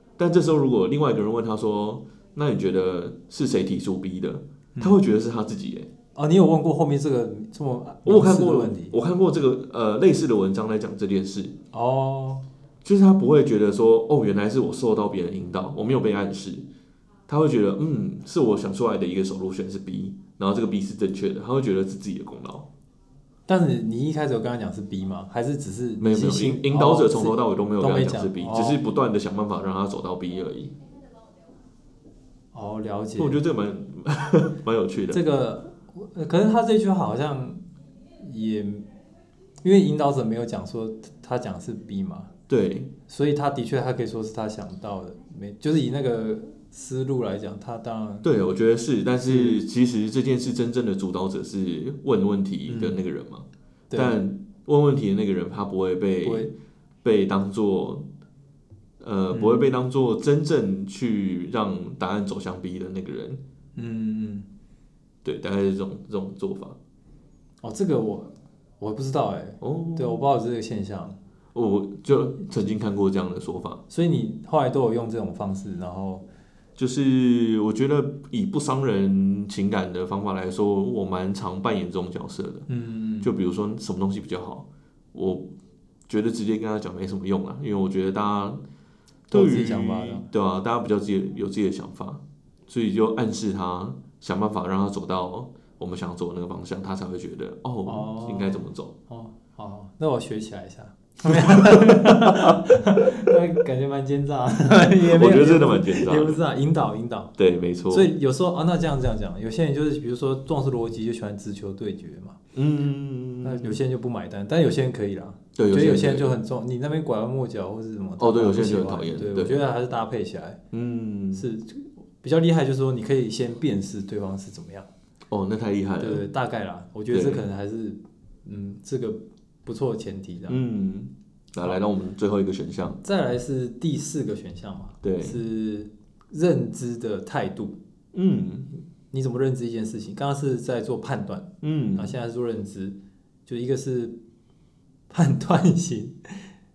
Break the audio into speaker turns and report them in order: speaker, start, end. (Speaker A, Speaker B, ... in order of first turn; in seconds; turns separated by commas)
Speaker A: 0.2-5.9, Speaker B: 6.1-8.9, Speaker A: 8.0-11.5, Speaker B: 11.7-12.4, Speaker A: 12.8-16.6, Speaker A: 17.3-22.7, Speaker B: 23.5-28.8, Speaker A: 26.0-30.7, Speaker B: 32.5-33.4, Speaker A: 33.2-35.2, Speaker B: 35.1-37.6, Speaker B: 38.2-38.9, Speaker B: 39.6-42.3, Speaker A: 42.5-42.9, Speaker B: 43.1-48.3, Speaker A: 48.2-58.1, Speaker B: 49.2-49.6, Speaker B: 52.7-53.0, Speaker B: 53.9-54.2, Speaker B: 56.2-56.5, Speaker A: 59.0-63.4, Speaker B: 59.3-59.7, Speaker B: 63.8-64.5, Speaker A: 65.2-66.8, Speaker B: 67.6-71.2, Speaker A: 69.6-70.2, Speaker A: 71.5-73.8, Speaker B: 73.9-76.2, Speaker A: 76.8-82.7, Speaker B: 82.7-83.3, Speaker A: 83.2-85.5, Speaker A: 86.1-88.6, Speaker A: 89.3-98.9, Speaker B: 89.3-90.3, Speaker B: 97.8-107.3, Speaker A: 101.3-102.5, Speaker A: 105.0-106.4, Speaker A: 107.4-108.1, Speaker B: 107.9-112.4, Speaker A: 112.5-113.8, Speaker B: 113.4-120.6, Speaker A: 115.5-116.3, Speaker A: 118.2-119.6, Speaker A: 120.7-121.5, Speaker B: 121.3-124.9, Speaker A: 125.3-126.2, Speaker B: 126.0-130.6, Speaker A: 127.1-127.5, Speaker A: 130.5-133.0, Speaker B: 133.0-137.8, Speaker A: 135.0-135.4, Speaker A: 138.1-138.7, Speaker B: 139.1-144.2, Speaker A: 141.6-142.1, Speaker B: 145.1-146.5